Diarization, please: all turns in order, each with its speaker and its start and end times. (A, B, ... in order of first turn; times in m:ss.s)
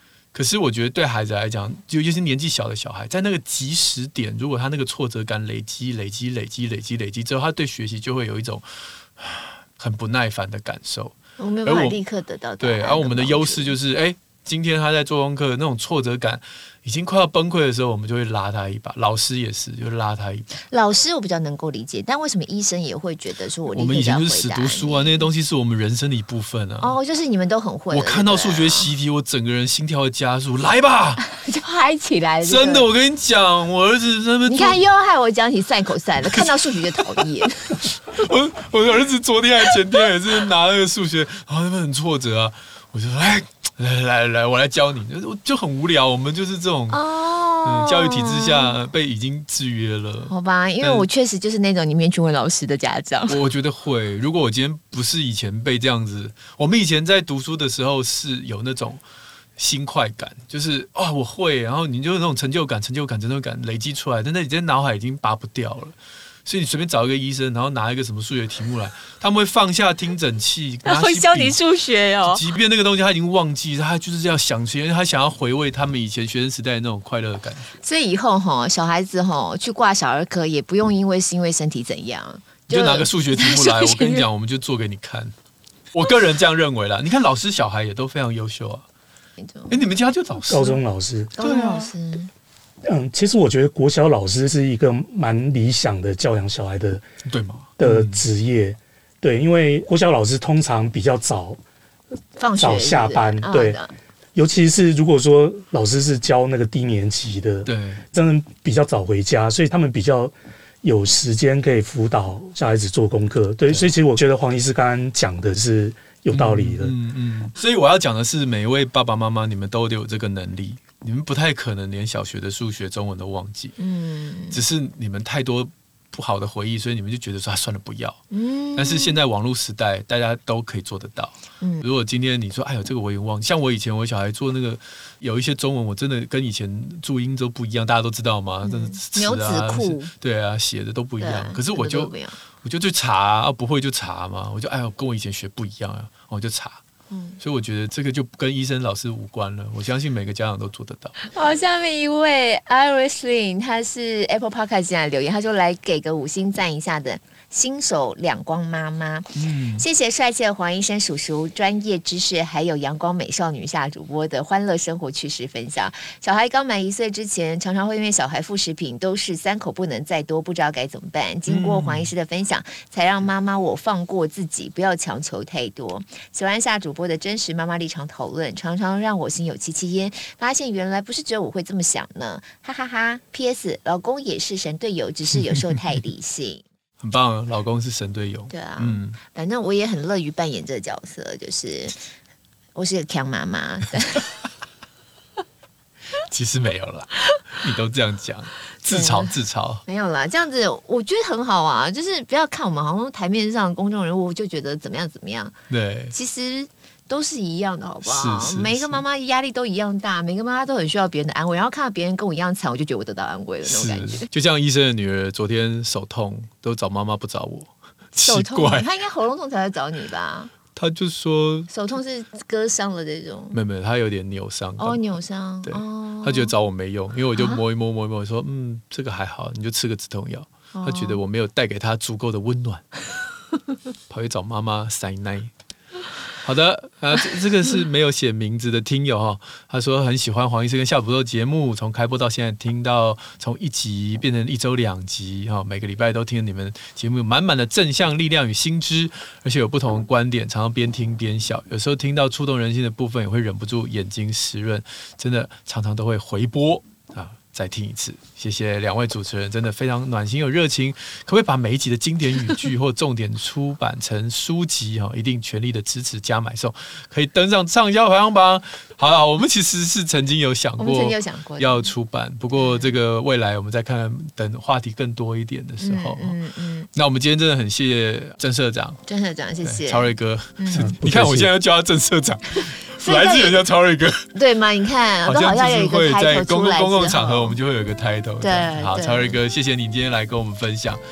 0:00.3-0:12.0 A
0:11.4-0:13.8 B
0:12.6-0:20.5 A
0:20.7-0:25.3 B
0:23.7-0:27.0 A
0:26.8-0:28.9 B
0:27.9-0:31.3 A
0:31.3-0:32.8 B
0:32.4-0:34.8 A
0:34.5-0:37.8 B
0:36.3-0:47.0 A
0:46.9-0:48.8 B
0:47.6-0:51.1 A
0:50.3-0:53.4 B
0:53.3-0:59.0 A
0:59.6-1:11.6 A
1:10.9-1:12.4 B
1:12.3-1:17.7 A
1:17.8-1:24.3 B
1:22.7-1:25.3 A
1:25.9-1:28.8 A
1:29.4-1:29.8 B
1:29.7-1:30.8 A
1:30.5-1:31.3 C
1:31.4-1:32.3 B
1:31.4-1:31.9 A
1:32.8-1:37.0 C
1:37.3-1:38.2 A
1:37.8-1:41.6 C
1:42.4-1:43.9 B
1:42.6-1:43.8 C
1:44.4-1:56.9 C
1:47.7-1:48.0 A
1:56.3-2:03.8 A
2:03.8-2:04.6 B
2:04.5-2:08.2 A
2:08.3-2:09.2 B
2:08.8-2:26.8 A
2:11.6-2:11.9 B
2:18.6-2:20.1 B
2:21.2-2:22.4 B
2:27.1-2:27.4 B
2:27.4-2:31.2 A
2:31.2-3:06.6 B
2:39.4-2:39.8 A
2:51.5-2:52.1 A
3:05.4-3:05.8 A
3:07.0-3:09.2 A
3:08.5-3:12.0 B
3:12.8-3:14.3 B
3:16.3-3:19.8 A
3:18.9-3:19.3 B
3:19.9-3:25.5 B
3:25.7-3:26.1 A
3:26.1-3:34.3 B
3:28.0-3:29.0 A
3:33.6-3:38.9 A
3:38.2-3:40.5 B
3:40.7-3:41.7 A
3:41.7-3:43.6 B
3:43.5-3:45.0 A
3:44.8-3:46.5 B
3:45.6-3:52.9 A
3:47.4-3:47.6 B
3:50.8-3:51.2 B
3:54.1-3:55.5 A
3:56.4-4:36.4 A
4:30.8-4:31.9 B
4:32.6-4:32.9 B
4:35.8-4:36.9 B
4:36.9-4:39.0 A
4:39.1-4:40.9 B
4:39.6-4:44.3 A
4:40.8-4:41.5 C
4:43.0-4:43.6 B
4:44.4-4:47.6 B
4:45.2-4:51.0 A
4:48.4-4:49.4 B